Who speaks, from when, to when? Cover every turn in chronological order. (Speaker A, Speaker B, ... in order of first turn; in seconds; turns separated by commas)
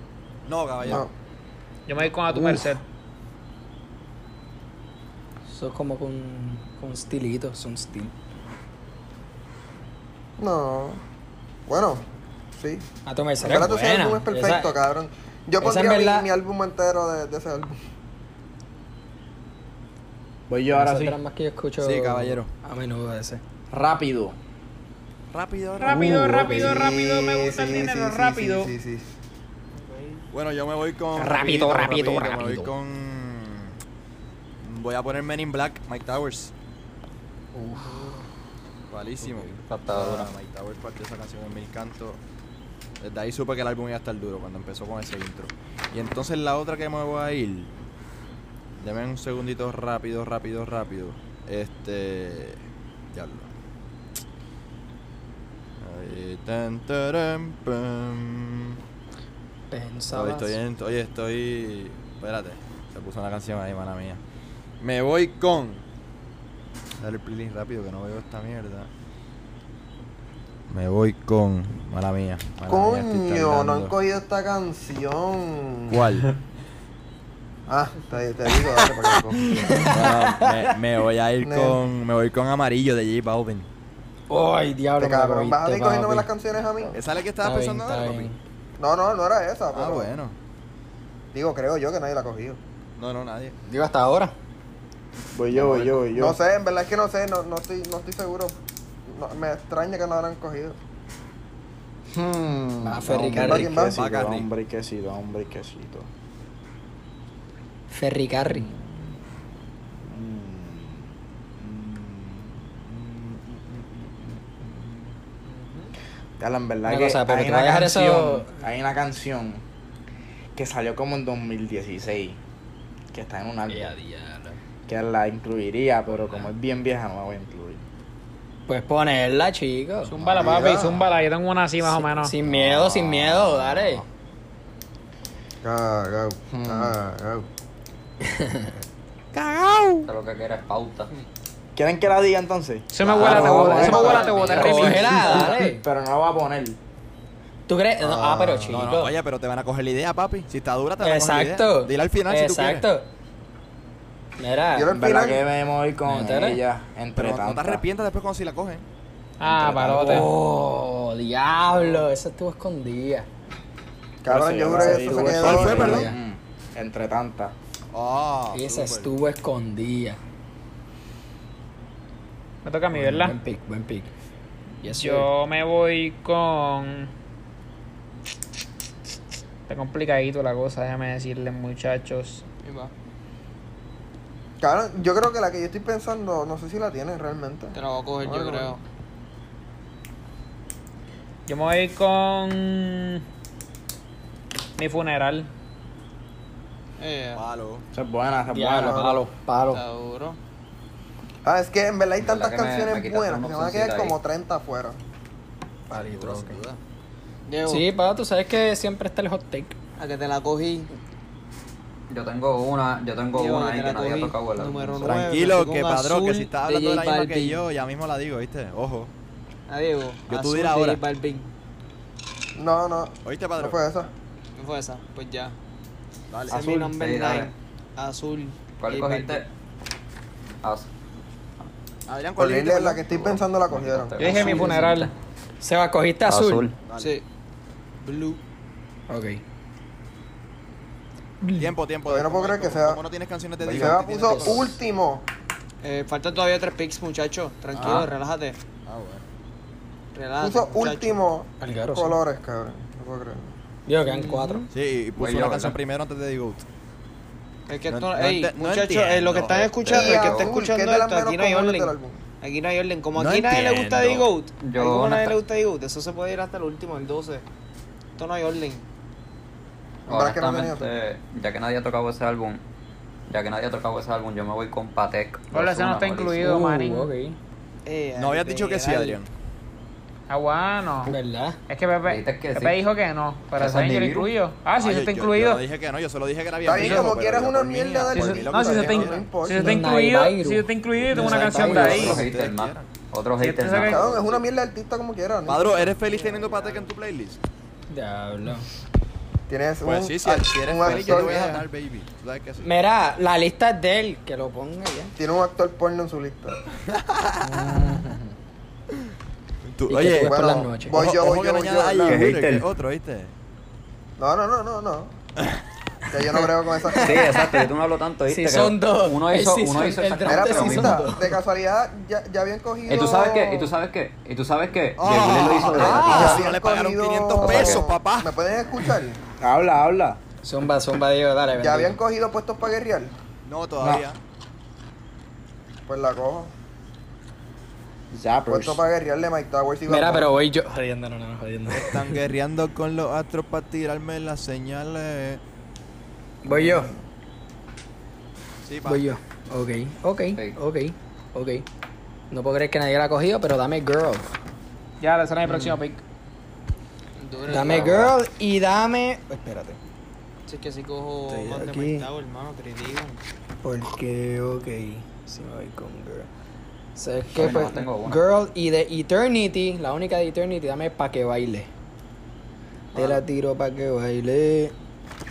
Speaker A: 0.5-1.1, Speaker B: 0.8-1.1, Speaker C: 1.9-2.8, Speaker D: 2.3-2.7, Speaker D: 5.5-8.1, Speaker B: 10.4-11.0, Speaker B: 11.7-12.8, Speaker D: 13.1-14.7, Speaker B: 13.4-17.8, Speaker D: 15.6-16.3, Speaker E: 20.5-21.2, Speaker D: 20.7-23.4, Speaker A: 21.8-22.5, Speaker E: 23.7-24.4, Speaker A: 25.3-26.7, Speaker C: 25.8-28.7, Speaker D: 25.8-26.9, Speaker B: 26.4-29.1, Speaker F: 29.7-30.3, Speaker A: 30.3-33.8, Speaker C: 31.2-32.4, Speaker D: 31.3-32.7, Speaker A: 34.6-36.5, Speaker D: 37.5-37.9, Speaker F: 37.8-38.2, Speaker A: 38.9-42.2, Speaker G: 39.2-40.3, Speaker A: 43.0-47.7, Speaker A: 48.8-52.6, Speaker A: 53.1-53.5, Speaker A: 55.8-58.8, Speaker D: 59.7-60.5, Speaker A: 60.1-64.2, Speaker A: 64.8-65.8, Speaker A: 67.0-68.9, Speaker A: 70.7-73.9, Speaker B: 72.7-76.1, Speaker A: 75.9-76.3, Speaker B: 77.7-79.9, Speaker A: 79.6-83.7, Speaker D: 79.6-80.5, Speaker B: 81.4-81.8, Speaker D: 84.3-86.3, Speaker B: 85.0-87.0, Speaker A: 86.9-88.3, Speaker D: 87.4-88.4, Speaker B: 88.8-90.2, Speaker A: 89.7-90.3, Speaker B: 91.3-92.6, Speaker A: 93.0-93.5, Speaker D: 93.6-94.3, Speaker E: 95.3-96.4, Speaker A: 95.5-96.0, Speaker B: 96.1-100.8, Speaker E: 102.1-106.1, Speaker D: 102.8-103.8, Speaker B: 103.3-104.0, Speaker A: 103.9-104.5, Speaker D: 107.9-108.7, Speaker E: 108.5-109.4, Speaker E: 109.9-115.1, Speaker F: 115.4-115.9, Speaker E: 116.4-119.6, Speaker D: 116.8-118.5, Speaker E: 120.5-122.4, Speaker E: 123.1-124.0, Speaker D: 123.7-124.6, Speaker E: 124.9-127.8, Speaker D: 128.7-130.6, Speaker C: 130.1-132.3, Speaker B: 130.4-131.1, Speaker D: 131.8-134.0, Speaker E: 132.5-133.5, Speaker B: 135.6-137.5, Speaker E: 136.5-136.9, Speaker D: 138.3-138.7, Speaker A: 139.3-140.1, Speaker G: 140.1-141.1, Speaker E: 141.7-146.8, Speaker C: 142.9-145.5, Speaker A: 143.2-144.2, Speaker D: 143.3-145.8, Speaker B: 143.3-144.7, Speaker D: 147.7-149.1, Speaker B: 148.0-148.7, Speaker A: 148.7-152.8, Speaker D: 151.0-153.1, Speaker D: 154.4-154.9, Speaker B: 154.7-155.4, Speaker E: 154.9-157.8, Speaker D: 156.1-156.6, Speaker A: 157.2-158.8, Speaker C: 159.4-160.3, Speaker D: 159.4-163.3, Speaker E: 159.8-160.2, Speaker B: 164.2-166.1, Speaker E: 164.2-167.5, Speaker D: 164.7-166.2, Speaker A: 165.3-166.1, Speaker A: 167.9-169.1, Speaker D: 168.5-170.2, Speaker C: 172.6-173.3, Speaker D: 172.9-174.1, Speaker D: 174.8-175.3, Speaker C: 175.0-177.1, Speaker C: 179.7-182.4, Speaker F: 182.6-182.9, Speaker B: 184.6-188.8, Speaker F: 187.7-188.8, Speaker C: 191.5-193.2, Speaker C: 194.8-195.5, Speaker F: 197.0-197.4, Speaker A: 197.3-197.8, Speaker E: 197.9-199.2, Speaker D: 198.5-199.8, Speaker B: 198.9-199.2, Speaker F: 199.7-200.4, Speaker B: 201.4-205.0, Speaker G: 202.2-204.2, Speaker D: 205.9-206.6, Speaker A: 205.9-206.8, Speaker F: 207.5-207.9, Speaker D: 207.6-209.8, Speaker F: 210.0-210.9, Speaker G: 212.1-215.2, Speaker F: 213.3-217.6, Speaker A: 215.0-219.1, Speaker F: 219.7-221.5, Speaker A: 220.3-221.0, Speaker B: 222.6-224.1, Speaker A: 223.2-223.8, Speaker F: 224.6-225.6, Speaker A: 226.3-226.8, Speaker F: 226.5-229.4, Speaker G: 226.7-227.5, Speaker G: 228.8-229.5, Speaker G: 230.6-230.9, Speaker A: 232.1-233.5, Speaker B: 232.4-234.7, Speaker G: 233.7-235.1, Speaker C: 234.2-235.1, Speaker D: 235.6-236.7, Speaker G: 236.2-236.7, Speaker A: 236.9-237.2, Speaker F: 237.0-237.2, Speaker F: 238.0-238.4, Speaker D: 239.1-239.4, Speaker D: 241.4-241.7, Speaker A: 241.6-244.8, Speaker B: 242.1-243.0, Speaker B: 243.6-245.2, Speaker D: 243.7-244.6, Speaker F: 245.8-248.6, Speaker A: 247.8-248.1, Speaker G: 247.8-248.1, Speaker A: 248.8-249.2, Speaker F: 250.1-251.2, Speaker B: 250.4-253.5, Speaker D: 251.6-252.2, Speaker D: 253.9-254.7, Speaker F: 254.0-254.7, Speaker A: 254.7-256.6, Speaker G: 255.2-255.8, Speaker F: 257.7-267.4, Speaker A: 257.9-259.9, Speaker G: 259.8-260.6, Speaker B: 259.9-262.2, Speaker A: 263.1-264.3, Speaker G: 264.6-265.4, Speaker F: 268.2-268.9, Speaker B: 270.1-270.9, Speaker G: 270.1-272.6, Speaker G: 273.3-276.5, Speaker C: 275.5-277.1, Speaker D: 276.4-277.4, Speaker F: 277.8-279.2, Speaker A: 278.1-279.3, Speaker C: 280.3-281.1, Speaker D: 281.1-281.6, Speaker C: 281.7-285.6, Speaker G: 282.0-282.8, Speaker G: 283.6-284.3, Speaker A: 284.8-289.3, Speaker B: 286.6-289.8, Speaker C: 288.1-292.2, Speaker D: 289.5-292.2, Speaker A: 291.0-292.9, Speaker G: 291.6-294.1, Speaker C: 293.4-294.0, Speaker B: 293.8-295.8, Speaker A: 295.5-297.4, Speaker F: 295.7-296.9, Speaker D: 297.9-298.7, Speaker B: 299.5-301.6, Speaker A: 299.8-302.7, Speaker D: 302.6-305.1, Speaker B: 305.2-306.6, Speaker A: 306.9-307.6, Speaker E: 307.4-308.3, Speaker A: 309.6-313.3, Speaker D: 309.9-311.0, Speaker B: 310.1-312.3, Speaker G: 312.1-312.7, Speaker B: 314.2-315.1, Speaker B: 316.1-317.4, Speaker D: 316.8-317.7, Speaker G: 317.0-321.1, Speaker D: 318.3-321.4, Speaker B: 320.2-323.7, Speaker G: 322.9-326.4, Speaker A: 325.0-328.3, Speaker B: 325.5-329.2, Speaker D: 325.7-326.4, Speaker G: 327.4-327.9, Speaker E: 329.4-330.2, Speaker D: 330.4-332.0, Speaker B: 331.6-333.1, Speaker A: 333.4-334.2, Speaker E: 333.8-334.0, Speaker B: 335.9-336.5, Speaker E: 338.1-338.9, Speaker B: 338.5-340.3, Speaker D: 339.9-342.2, Speaker A: 341.7-345.4, Speaker D: 346.4-346.9, Speaker A: 348.6-349.1, Speaker D: 348.9-351.6, Speaker G: 350.3-350.6, Speaker D: 352.3-354.3, Speaker C: 355.0-356.0, Speaker D: 355.5-355.7, Speaker F: 357.2-358.1, Speaker D: 357.5-359.8, Speaker F: 360.4-363.2, Speaker D: 361.3-362.1, Speaker D: 363.6-366.3, Speaker D: 366.9-371.7, Speaker G: 367.3-368.2, Speaker D: 372.9-374.7